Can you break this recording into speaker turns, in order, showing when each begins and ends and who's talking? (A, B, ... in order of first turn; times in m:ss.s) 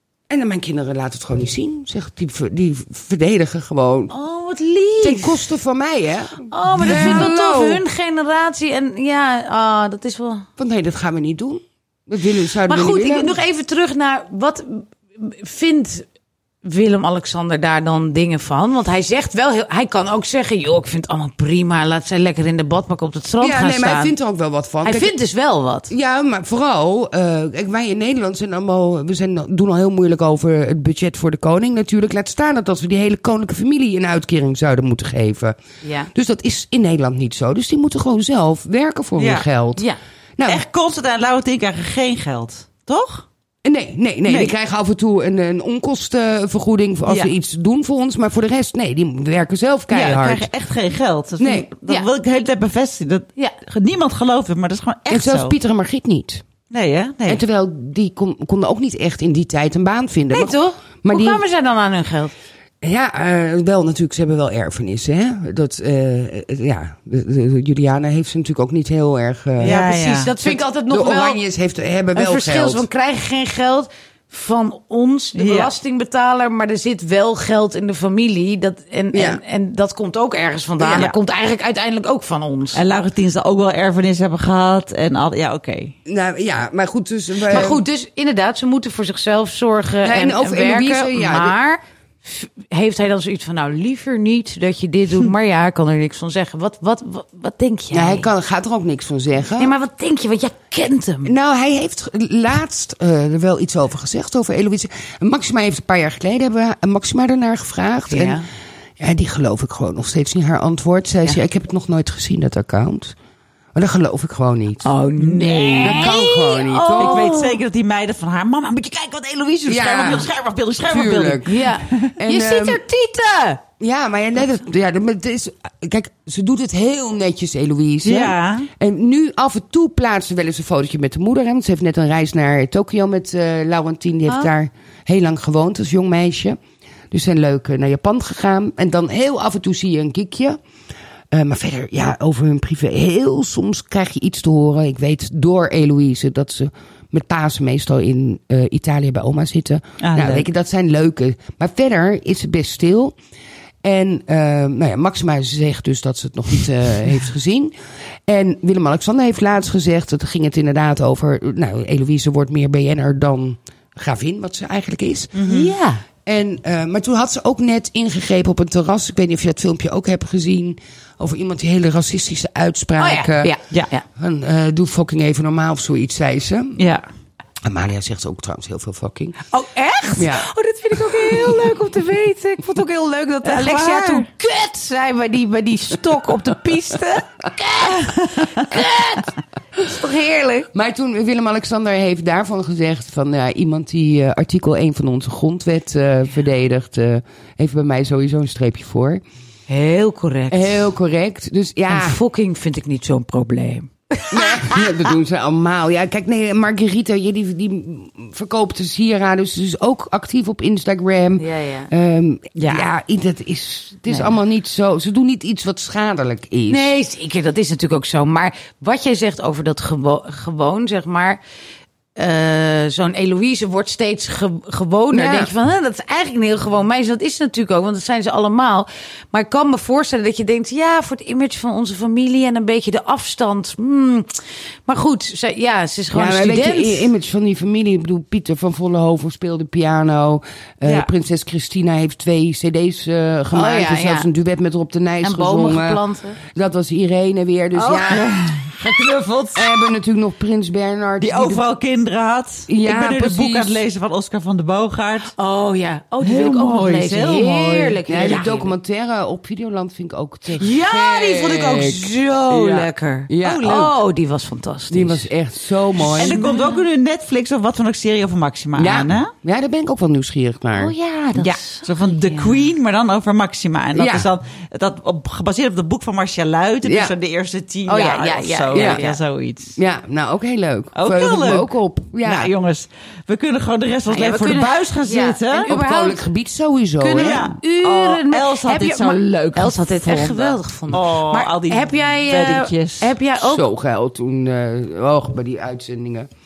0:00.3-0:04.1 A
0:04.1-0:05.5 B
0:05.0-0:07.8 A
0:06.5-0:10.4 B
0:06.7-0:07.3 C
0:10.6-0:13.3 A
0:12.7-0:16.1 B
0:16.6-0:24.1 B
0:23.4-0:25.1 A
0:24.8-0:25.9 B
0:25.9-0:35.6 A
0:35.8-0:36.1 B
0:36.1-0:39.9 A
0:39.2-0:39.4 C
0:40.4-0:40.6 A
0:40.5-0:43.3 C
0:43.6-0:50.5 A
0:44.3-0:44.5 C
0:49.9-0:55.6 C
0:51.4-0:51.7 A
0:55.1-0:56.4 A
0:56.7-0:57.4 C
0:57.3-1:01.4 A
1:00.3-1:02.3 B
1:02.8-1:09.8 A
1:09.6-1:11.4 B
1:09.6-1:10.3 C
1:10.4-1:12.9 A
1:12.1-1:22.8 B
1:15.4-1:15.7 C
1:19.1-1:19.4 A
1:20.8-1:21.1 A
1:22.7-1:25.9 C
1:26.0-1:27.8 A
1:27.5-1:38.3 B
1:30.0-1:31.6 A
1:37.9-1:39.7 A
1:39.6-1:41.3 B
1:41.2-1:48.4 A
1:48.1-1:48.5 B
1:49.0-1:53.1 A
1:53.7-1:54.9 A
1:54.8-1:57.6 B
1:55.2-1:56.1 C
1:55.8-1:57.3 A
1:57.0-2:02.1 C
1:59.7-2:00.3 A
2:00.9-2:01.6 A
2:01.4-2:03.6 B
2:02.2-2:02.8 A
2:03.8-2:16.6 A
2:08.0-2:08.7 C
2:17.1-2:20.6 A
2:21.3-2:33.1 A
2:30.0-2:30.4 C
2:33.8-2:37.7 A
2:38.3-2:45.4 A
2:45.3-2:45.7 C
2:45.4-2:46.0 B
2:46.2-2:53.6 A
2:53.0-2:54.0 B
2:54.1-2:56.8 A
2:56.8-2:57.0 C
2:57.6-2:59.4 A
2:59.5-3:10.7 B
3:00.2-3:00.5 A
3:03.4-3:04.3 C
3:10.7-3:19.2 A
3:19.7-3:20.9 B
3:20.5-3:22.2 A
3:21.9-3:24.9 B
3:24.3-3:36.9 A
3:31.4-3:31.9 B
3:32.6-3:32.8 B
3:36.7-3:41.4 B
3:42.2-3:57.1 B
3:45.1-3:45.5 A
3:56.1-4:08.2 A
4:00.8-4:01.1 C
4:03.5-4:04.3 B
4:05.2-4:06.4 B
4:07.8-4:08.2 B
4:07.8-4:09.7 C
4:09.6-4:11.6 A
4:11.2-4:15.3 C
4:12.7-4:13.8 A
4:15.4-4:18.7 B
4:16.2-4:18.5 C
4:18.1-4:24.0 A
4:20.6-4:25.3 B
4:24.9-4:26.4 A
4:26.0-4:26.8 B
4:26.1-4:29.3 C
4:28.8-4:30.9 A
4:30.7-4:32.7 B
4:31.3-4:39.8 C
4:34.0-4:34.3 A
4:36.8-4:37.1 A
4:37.9-4:39.2 B
4:38.7-4:39.0 A
4:39.8-4:42.5 A
4:41.0-4:45.7 C
4:44.1-4:46.3 B
4:45.7-4:47.6 A
4:47.0-4:53.6 B
4:47.2-4:53.1 C
4:53.4-4:56.3 A